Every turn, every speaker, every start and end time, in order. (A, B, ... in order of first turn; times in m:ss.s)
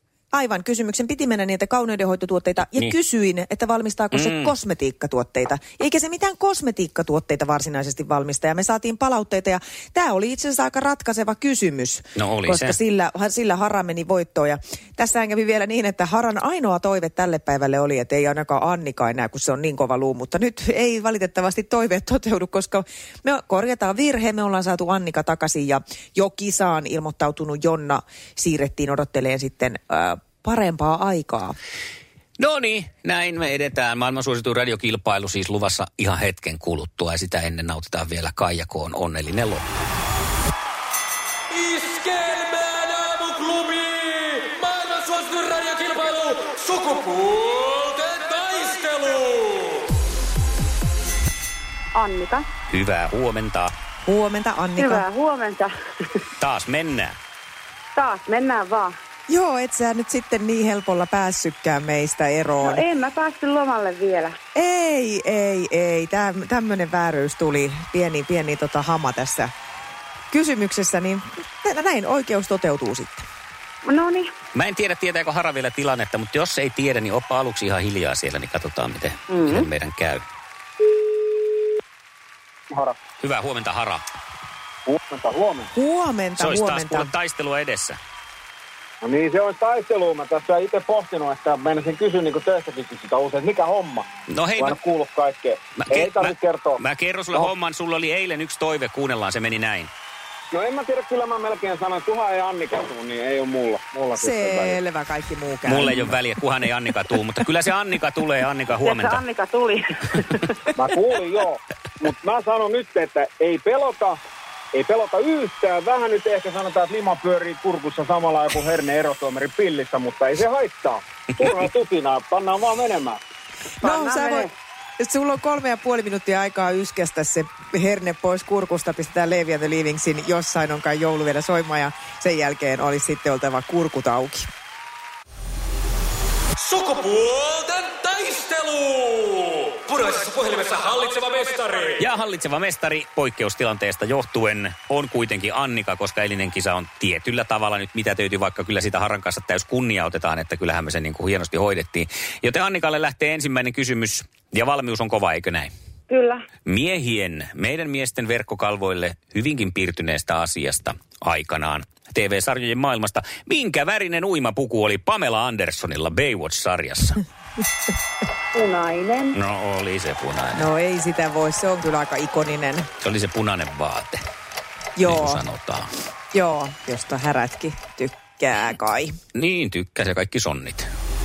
0:00.3-0:31.6 A
0:04.1-0:04.5 B
0:12.2-0:12.8 B
0:32.4-0:39.8 B
0:41.6-0:49.5 C
0:51.9-0:52.5 D
0:52.7-0:53.7 B
0:54.0-0:55.1 A
0:54.8-0:55.7 D
0:56.4-0:57.2 B
0:58.0-0:59.0 D
0:59.3-1:02.8 A
1:02.6-1:04.4 D
1:04.6-1:09.5 A
1:10.3-1:13.2 A
1:13.8-1:14.3 D
1:14.5-1:20.2 B
1:19.3-1:19.7 D
1:22.7-1:23.0 E
1:23.2-1:24.0 B
1:24.9-1:25.7 E
1:25.7-1:27.1 A
1:26.4-1:28.0 B
1:29.0-1:34.1 E
1:34.3-1:34.8 B
1:34.6-1:36.8 E
1:35.8-1:39.9 B
1:40.5-1:44.8 E
1:44.2-1:46.1 A
1:45.7-1:49.2 B
1:48.8-1:50.5 D
1:50.8-1:54.2 E
1:54.7-2:03.2 E
2:03.8-2:14.5 A
2:03.8-2:04.5 D
2:16.6-2:22.0 C
2:22.0-2:35.7 B
2:36.1-2:36.4 D
2:36.7-2:47.2 B
2:48.5-2:49.4 D
2:49.3-2:50.7 B
2:50.6-2:52.9 A
2:53.0-2:54.2 B
2:55.0-2:55.4 A
2:55.0-2:55.9 B
2:56.3-2:59.1 A
2:59.4-3:00.9 B